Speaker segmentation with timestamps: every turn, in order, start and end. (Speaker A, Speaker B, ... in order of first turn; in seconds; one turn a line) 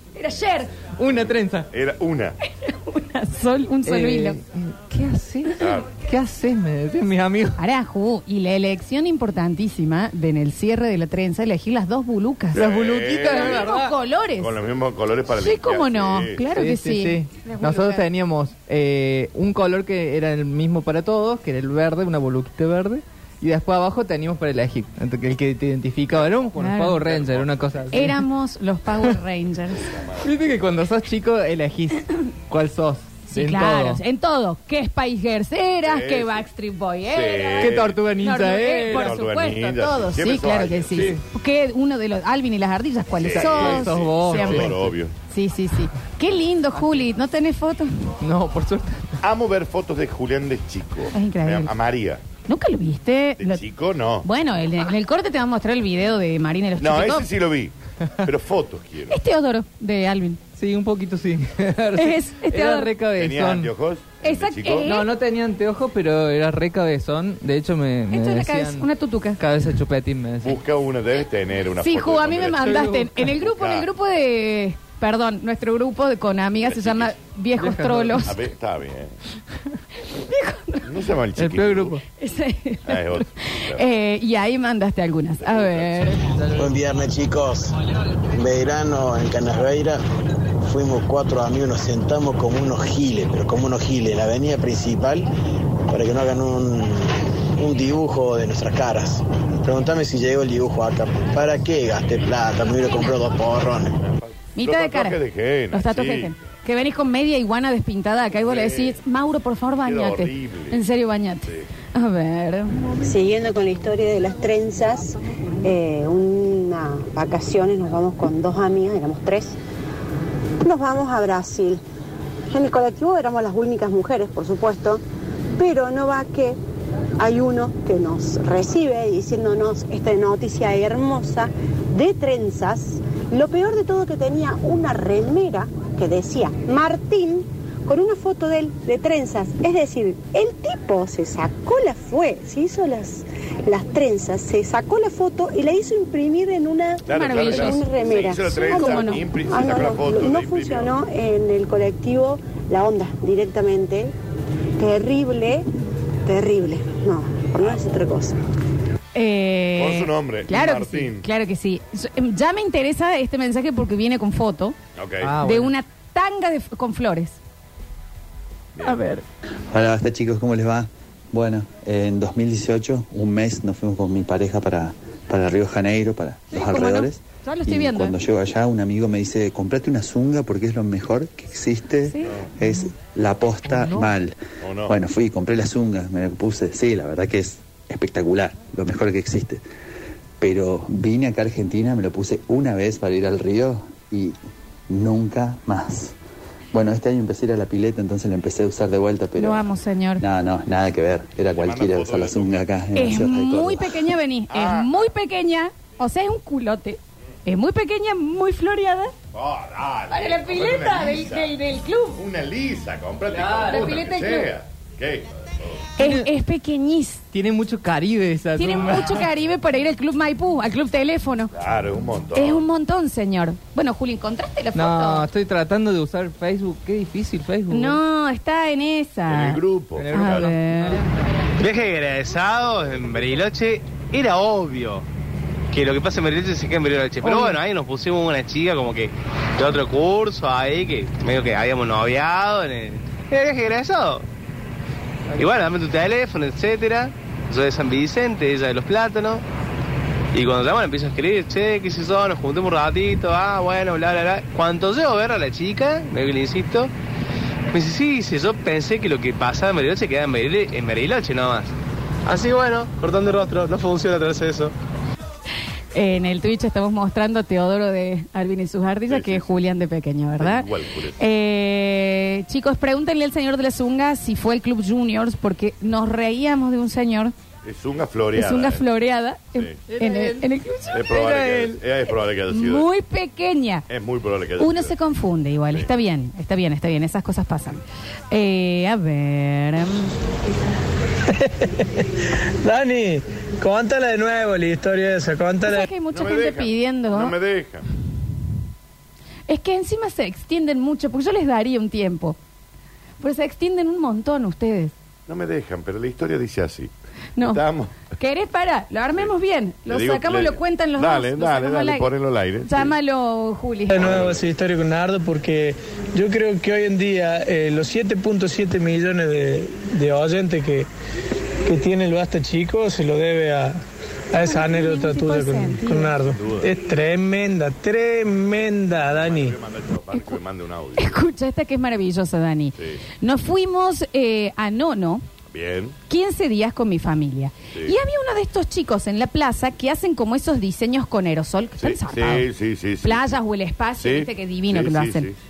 Speaker A: 0.2-0.8
Speaker B: 1.0-1.7
Speaker C: 1.7-2.4
Speaker A: 2.6-4.4
Speaker B: 3.9-7.6
Speaker C: 5.6-6.0
Speaker A: 7.6-12.6
Speaker C: 12.5-13.7
Speaker B: 12.5-13.9
Speaker A: 13.3-14.6
Speaker C: 14.4-16.4
Speaker A: 15.3-18.1
Speaker B: 16.5-28.2
Speaker C: 26.1-26.4
Speaker A: 26.6-27.0
Speaker C: 27.0-27.9
Speaker A: 27.9-29.9
Speaker C: 29.8-30.3
Speaker B: 30.2-34.0
Speaker A: 33.3-44.8
Speaker C: 35.8-36.5
Speaker C: 37.1-38.0
Speaker B: 37.6-39.2
Speaker C: 38.9-41.2
Speaker C: 43.2-45.1
Speaker B: 43.3-44.9
Speaker A: 45.3-48.1
Speaker B: 46.8-47.1
Speaker B: 48.2-49.2
Speaker C: 49.2-52.2
Speaker A: 51.1-51.7
Speaker A: 52.5-53.6
Speaker C: 53.4-54.3
Speaker A: 54.2-57.3
Speaker C: 56.8-59.2
Speaker A: 59.1-60.4
Speaker B: 60.6-63.7
Speaker A: 62.0-62.9
Speaker C: 63.1-64.9
Speaker A: 64.2-65.1
Speaker B: 64.8-70.6
Speaker A: 68.1-69.4
Speaker C: 70.4-73.9
Speaker A: 71.8-78.3
Speaker B: 72.6-73.3
Speaker C: 76.6-77.1
Speaker B: 77.6-78.3
Speaker C: 78.2-79.1
Speaker A: 80.2-80.8
Speaker C: 80.8-82.0
Speaker B: 81.4-82.0
Speaker A: 82.2-86.3
Speaker C: 82.9-83.8
Speaker C: 85.4-86.1
Speaker B: 86.3-86.7
Speaker D: 86.5-87.8
Speaker D: 88.3-90.0
Speaker D: 90.6-95.3
Speaker D: 95.9-104.0
Speaker C: 104.0-106.3
Speaker A: 104.6-105.2
Speaker A: 105.7-112.7
Speaker C: 108.3-109.0
Speaker C: 109.8-110.8
Speaker E: 113.0-119.6
Speaker E: 120.6-121.8
Speaker E: 122.5-125.0
Speaker E: 125.6-126.6
Speaker E: 127.2-154.1
Speaker C: 147.1-150.9
Speaker A: 147.1-147.9
Speaker A: 148.5-149.2
Speaker E: 154.8-155.7
Speaker E: 156.3-158.4
Speaker A: 159.2-164.8
Speaker C: 159.8-161.2
Speaker C: 165.0-165.3
Speaker B: 165.2-165.7
Speaker A: 165.4-167.4
Speaker C: 168.8-169.0
Speaker A: 168.8-169.2
Speaker F: 169.7-189.6
Speaker A: 176.5-178.2
Speaker A: 182.1-182.4
Speaker C: 184.6-184.9
Speaker F: 190.4-194.4
Speaker F: 194.9-196.2
Speaker F: 196.7-204.0
Speaker A: 199.4-200.2
Speaker C: 201.6-202.7
Speaker A: 202.9-209.1
Speaker C: 204.5-204.9
Speaker C: 209.3-211.5
Speaker A: 210.1-212.2
Speaker C: 212.2-215.9
Speaker B: 213.3-214.1
Speaker A: 213.7-214.5
Speaker A: 216.0-217.2
Speaker B: 216.0-216.3
Speaker B: 217.3-219.3
Speaker A: 218.6-221.5
Speaker C: 221.5-222.7
Speaker A: 222.3-225.3
Speaker B: 224.7-228.0
Speaker A: 227.7-231.0
Speaker C: 229.3-230.5
Speaker B: 230.0-231.1
Speaker G: 231.6-235.1
Speaker G: 235.7-244.2
Speaker A: 237.2-237.5
Speaker G: 245.3-249.4
Speaker G: 250.3-256.9
Speaker G: 257.7-261.7
Speaker G: 262.3-264.7
Speaker A: 265.9-270.7
Speaker C: 269.1-269.7
Speaker C: 270.4-271.2
Speaker A: 271.2-277.3
Speaker C: 277.6-278.8
Speaker A: 278.4-281.4
Speaker B: 279.9-280.5
Speaker C: 280.9-282.9
Speaker B: 281.1-281.8
Speaker A: 282.1-283.9
Speaker C: 283.9-284.9
Speaker A: 284.6-290.1
Speaker H: 292.6-295.9
Speaker A: 295.6-297.4
Speaker C: 296.1-297.9
Speaker A: 299.5-302.4
Speaker A: 303.2-304.9
Speaker C: 305.3-306.9
Speaker C: 307.4-308.0
Speaker A: 308.1-312.1
Speaker C: 309.9-312.9
Speaker A: 312.6-314.1
Speaker H: 313.9-320.9
Speaker C: 314.0-314.5
Speaker H: 321.6-323.8
Speaker H: 324.3-329.6
Speaker A: 324.4-326.2
Speaker C: 326.3-326.7
Speaker C: 328.9-331.2
Speaker A: 330.1-330.4
Speaker A: 331.0-335.2
Speaker C: 335.5-335.9
Speaker A: 336.1-342.5
Speaker C: 341.8-343.4
Speaker A: 343.0-345.3
Speaker C: 344.0-345.4